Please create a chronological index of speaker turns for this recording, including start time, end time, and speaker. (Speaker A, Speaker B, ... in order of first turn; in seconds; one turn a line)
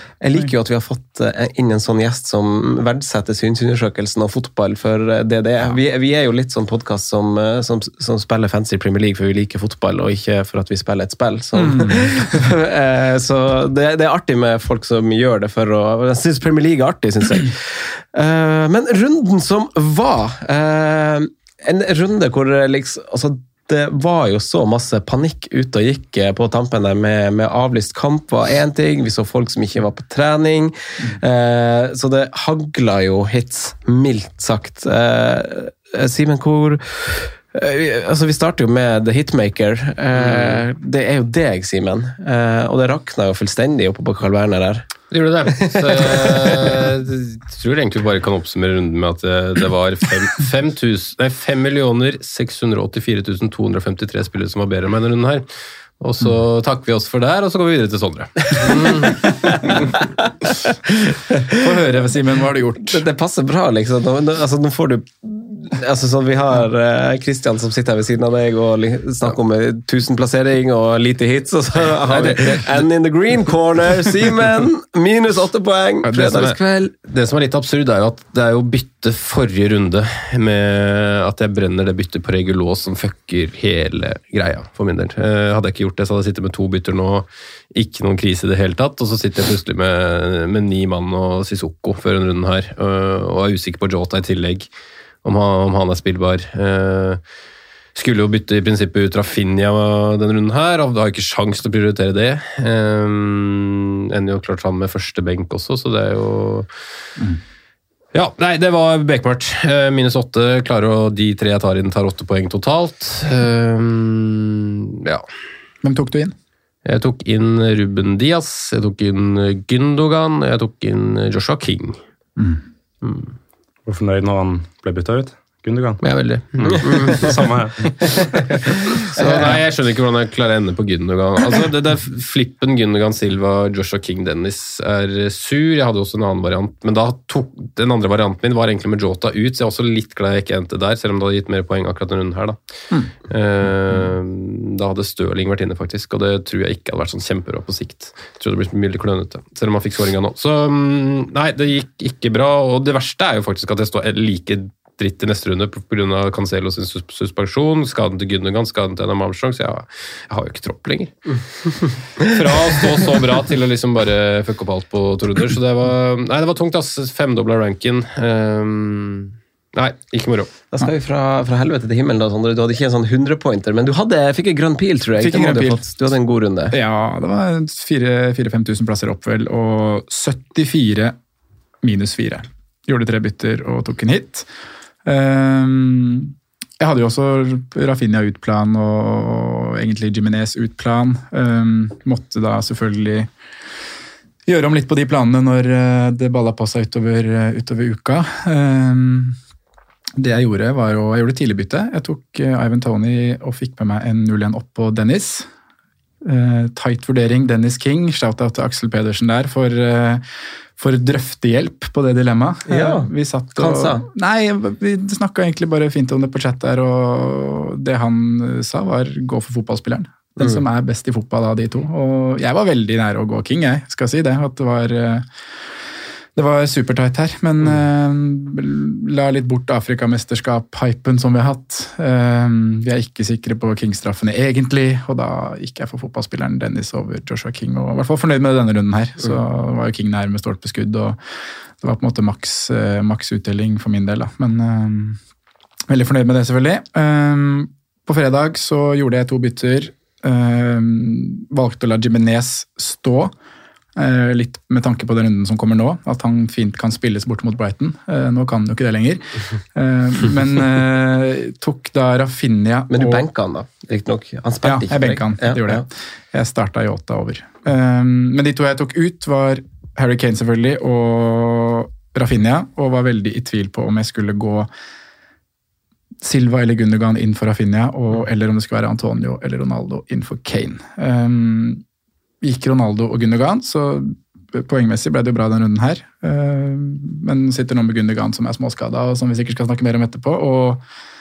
Speaker A: 0.2-44.9
Speaker B: 11.6-12.1
Speaker C: 40.2-40.6
Speaker C: 45.1-55.5
Speaker A: 45.7-46.7
Speaker C: 56.0-60.0
Speaker B: 61.5-63.0
Speaker A: 62.8-76.9
Speaker C: 77.0-94.7
Speaker C: 95.2-97.2
Speaker C: 98.0-106.7
Speaker C: 108.1-115.2
Speaker B: 115.8-116.3
Speaker C: 116.8-122.0
Speaker B: 122.4-122.6
Speaker C: 123.0-123.3
Speaker D: 123.9-126.0
Speaker C: 126.0-127.4
Speaker D: 126.5-128.8
Speaker A: 129.2-129.5
Speaker C: 129.2-142.6
Speaker C: 143.2-161.3
Speaker C: 162.2-170.5
Speaker A: 170.7-176.8
Speaker B: 175.2-175.8
Speaker B: 176.7-181.2
Speaker B: 181.8-184.5
Speaker B: 185.1-193.3
Speaker B: 194.5-199.4
Speaker B: 200.2-205.5
Speaker B: 206.2-210.2
Speaker B: 210.8-225.3
Speaker A: 212.7-214.1
Speaker B: 226.4-241.2
Speaker B: 241.8-245.2
Speaker B: 245.9-253.3
Speaker B: 254.0-263.3
Speaker A: 262.9-265.9
Speaker B: 264.6-274.7
Speaker B: 276.2-281.8
Speaker B: 282.4-290.8